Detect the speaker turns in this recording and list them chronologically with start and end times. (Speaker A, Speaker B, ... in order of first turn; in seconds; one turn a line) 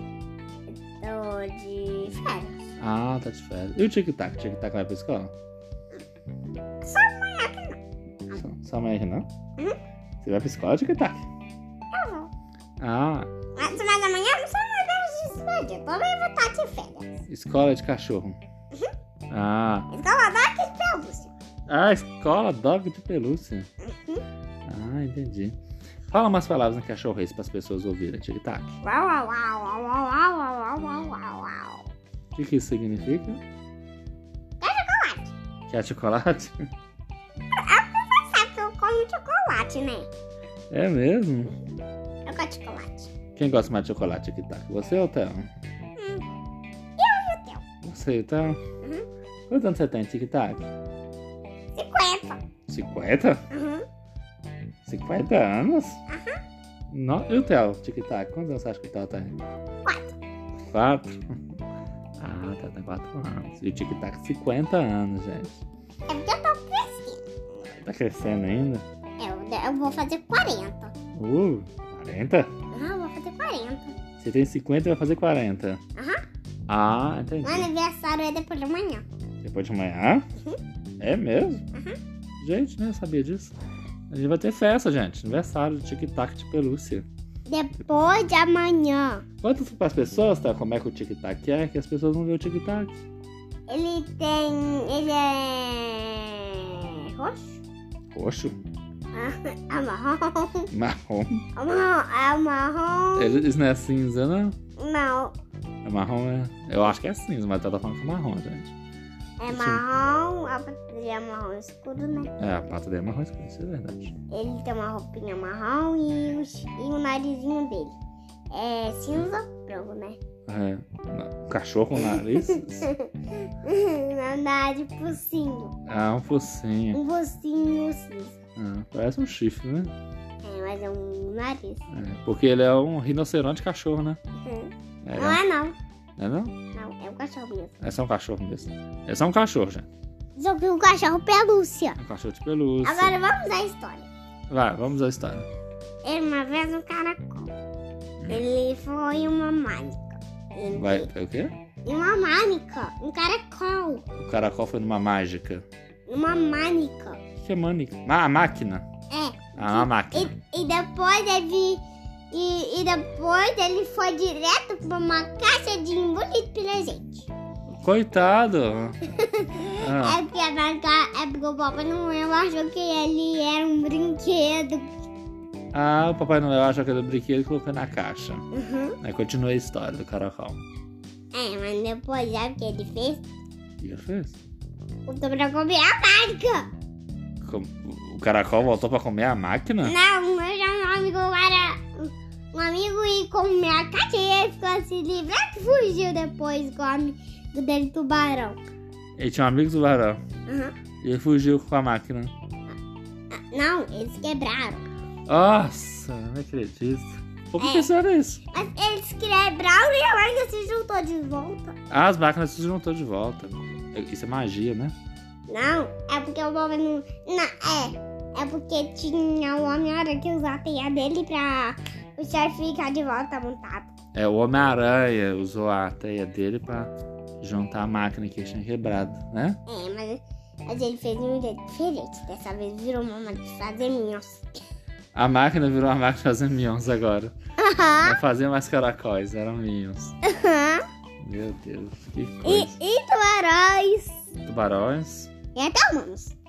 Speaker A: 0.7-2.6
Speaker B: 2.8-5.3
Speaker A: 6.8-7.8
Speaker B: 8.3-9.3
Speaker B: 10.2-11.3
Speaker A: 11.9-12.3
Speaker B: 12.8-13.3
Speaker A: 13.6-17.2
Speaker B: 17.3-18.4
Speaker B: 19.3-19.9
Speaker A: 19.9-21.3
Speaker B: 21.7-23.7
Speaker A: 23.8-24.2
Speaker B: 24.7-25.6
Speaker B: 26.1-28.8
Speaker A: 28.8-31.9
Speaker B: 32.3-33.4
Speaker A: 34.6-35.3
Speaker B: 35.7-36.6
Speaker A: 37.5-40.1
Speaker B: 40.7-41.5
Speaker A: 42.3-43.1
Speaker B: 43.4-45.5
Speaker A: 46.0-46.2
Speaker A: 47.0-47.6
Speaker B: 47.8-48.6
Speaker B: 49.5-50.7
Speaker A: 51.8-52.4
Speaker B: 52.7-53.4
Speaker A: 53.5-53.9
Speaker B: 54.9-56.0
Speaker A: 56.1-56.4
Speaker B: 56.9-59.4
Speaker A: 59.9-60.2
Speaker B: 60.7-61.2
Speaker B: 62.2-65.6
Speaker A: 66.1-67.3
Speaker B: 67.7-68.8
Speaker A: 69.2-71.0
Speaker B: 71.2-72.5
Speaker A: 72.7-74.0
Speaker B: 74.2-75.8
Speaker A: 76.0-76.2
Speaker B: 76.7-77.7
Speaker A: 77.4-79.0
Speaker B: 79.4-80.3
Speaker B: 81.0-81.7
Speaker B: 82.4-83.5
Speaker B: 84.1-87.1
Speaker A: 87.5-89.2
Speaker B: 89.4-93.0
Speaker A: 93.7-97.6
Speaker B: 98.1-98.6
Speaker A: 99.1-100.7
Speaker B: 100.7-101.5
Speaker A: 101.6-103.4
Speaker B: 103.2-104.6
Speaker A: 104.8-105.3
Speaker B: 105.8-108.7
Speaker A: 109.4-112.3
Speaker B: 109.5-109.8
Speaker B: 112.4-114.1
Speaker A: 114.3-118.0
Speaker A: 118.5-120.2
Speaker B: 120.5-122.9
Speaker A: 122.1-125.7
Speaker B: 125.9-127.0
Speaker A: 126.9-128.4
Speaker B: 128.6-129.9
Speaker A: 130.4-131.8
Speaker B: 131.9-134.2
Speaker A: 134.4-135.8
Speaker B: 135.1-135.4
Speaker B: 136.2-136.5
Speaker A: 136.7-137.7
Speaker B: 137.8-139.9
Speaker A: 140.4-142.0
Speaker B: 142.0-143.2
Speaker A: 142.8-144.1
Speaker B: 144.5-145.5
Speaker A: 146.0-147.5
Speaker B: 148.2-148.4
Speaker A: 148.3-151.1
Speaker B: 150.7-151.5
Speaker A: 151.8-154.1
Speaker B: 154.2-155.7
Speaker A: 156.1-157.2
Speaker B: 157.4-158.9
Speaker A: 159.1-167.3
Speaker B: 159.6-160.3
Speaker B: 167.7-169.0
Speaker A: 169.1-174.9
Speaker B: 169.7-170.2
Speaker B: 175.7-178.4
Speaker A: 178.5-179.0
Speaker B: 179.0-180.6
Speaker A: 181.3-183.2
Speaker B: 183.8-184.4
Speaker A: 185.1-186.7
Speaker B: 187.4-190.0
Speaker A: 189.8-198.6
Speaker B: 199.2-200.2
Speaker A: 200.5-200.8
Speaker B: 201.0-202.3
Speaker A: 203.3-204.9
Speaker B: 205.3-208.4
Speaker A: 207.6-207.9
Speaker A: 208.5-211.8
Speaker B: 211.9-214.9
Speaker A: 215.5-223.9
Speaker B: 224.1-229.6
Speaker A: 229.7-234.4
Speaker B: 235.1-237.3
Speaker A: 237.6-238.2
Speaker B: 238.0-240.1
Speaker A: 240.2-240.8
Speaker B: 241.2-242.7
Speaker A: 242.4-244.2
Speaker B: 244.4-245.3
Speaker A: 245.5-246.3